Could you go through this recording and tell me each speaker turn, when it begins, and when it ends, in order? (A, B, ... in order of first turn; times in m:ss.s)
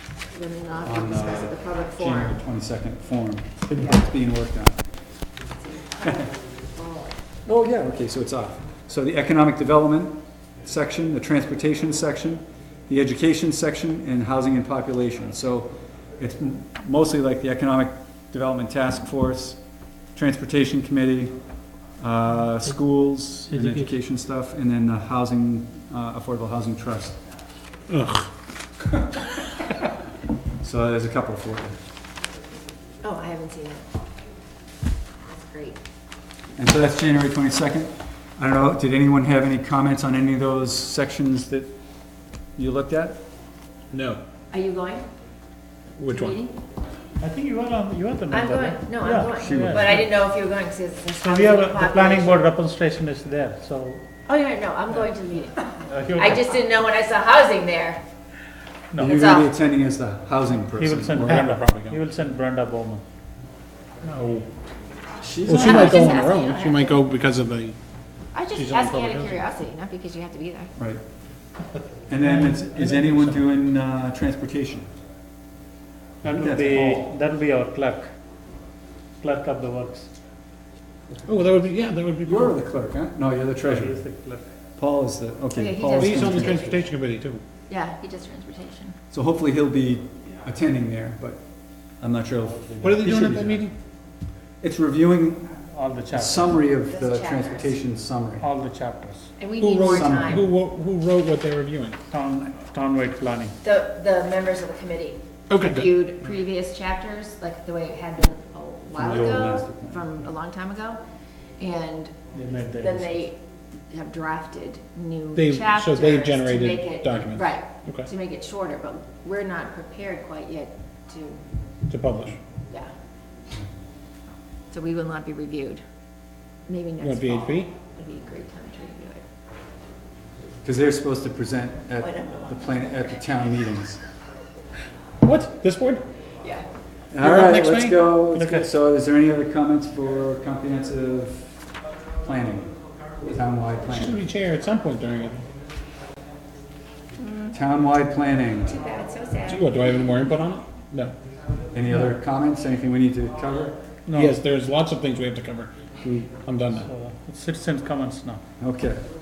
0:00.3-0:02.4 A
0:00.8-0:04.8 B
0:05.6-0:07.2 A
0:07.4-0:19.6 B
0:20.1-0:21.3 B
0:22.0-0:27.2 B
0:23.5-0:23.9 C
0:27.9-0:28.3 D
0:30.6-0:31.8 B
0:33.0-0:33.8 A
0:35.2-0:35.8 A
0:36.6-0:41.7 B
0:42.6-0:43.2 B
0:43.9-0:44.2 D
0:44.5-0:45.1 A
0:46.0-0:46.4 D
0:46.1-0:46.5 A
0:47.2-0:50.1 C
0:48.3-0:52.4 A
0:49.3-0:50.0 B
0:51.2-0:54.0 C
0:54.2-0:58.0 A
0:55.8-0:56.6 C
0:58.9-0:59.2 C
0:59.0-1:01.5 B
0:59.0-0:59.5 A
1:00.7-1:03.0 C
1:01.2-1:02.0 D
1:04.0-1:04.5 D
1:05.2-1:06.2 B
1:05.4-1:07.8 D
1:05.5-1:07.0 A
1:08.3-1:10.7 A
1:08.5-1:09.4 D
1:10.8-1:11.0 B
1:12.1-1:14.9 B
1:12.2-1:13.4 D
1:16.2-1:18.1 C
1:16.3-1:17.1 B
1:19.2-1:20.1 C
1:21.2-1:22.6 D
1:22.2-1:24.0 B
1:23.6-1:24.5 C
1:24.8-1:26.8 B
1:25.5-1:26.8 A
1:26.0-1:27.4 D
1:27.7-1:29.0 A
1:29.1-1:31.4 B
1:32.0-1:33.6 B
1:32.8-1:33.7 D
1:34.6-1:35.5 B
1:35.7-1:36.6 C
1:36.1-1:38.5 B
1:36.8-1:37.8 A
1:38.4-1:39.3 C
1:39.4-1:40.5 A
1:39.6-1:42.0 D
1:39.9-1:40.5 B
1:42.1-1:43.6 C
1:43.6-1:51.0 A
1:45.5-1:45.9 D
1:49.0-1:50.0 B
1:51.6-1:52.1 A
1:52.3-1:53.2 C
1:52.8-2:01.4 A
1:55.3-1:58.1 D
2:01.9-2:02.4 D
2:04.7-2:05.8 A
2:06.7-2:09.2 A
2:07.0-2:07.7 D
2:10.6-2:14.0 B
2:12.0-2:13.2 A
2:15.2-2:16.0 D
2:16.4-2:16.6 A
2:17.1-2:21.5 B
2:17.2-2:18.7 C
2:22.2-2:24.2 B
2:23.9-2:25.4 D
2:27.2-2:27.5 A
2:27.5-2:28.8 B
2:28.6-2:29.7 A
2:29.4-2:31.1 D
2:31.7-2:33.8 B
2:34.0-2:34.4 C
2:34.1-2:36.9 D
2:36.8-2:38.4 C
2:38.6-2:39.0 B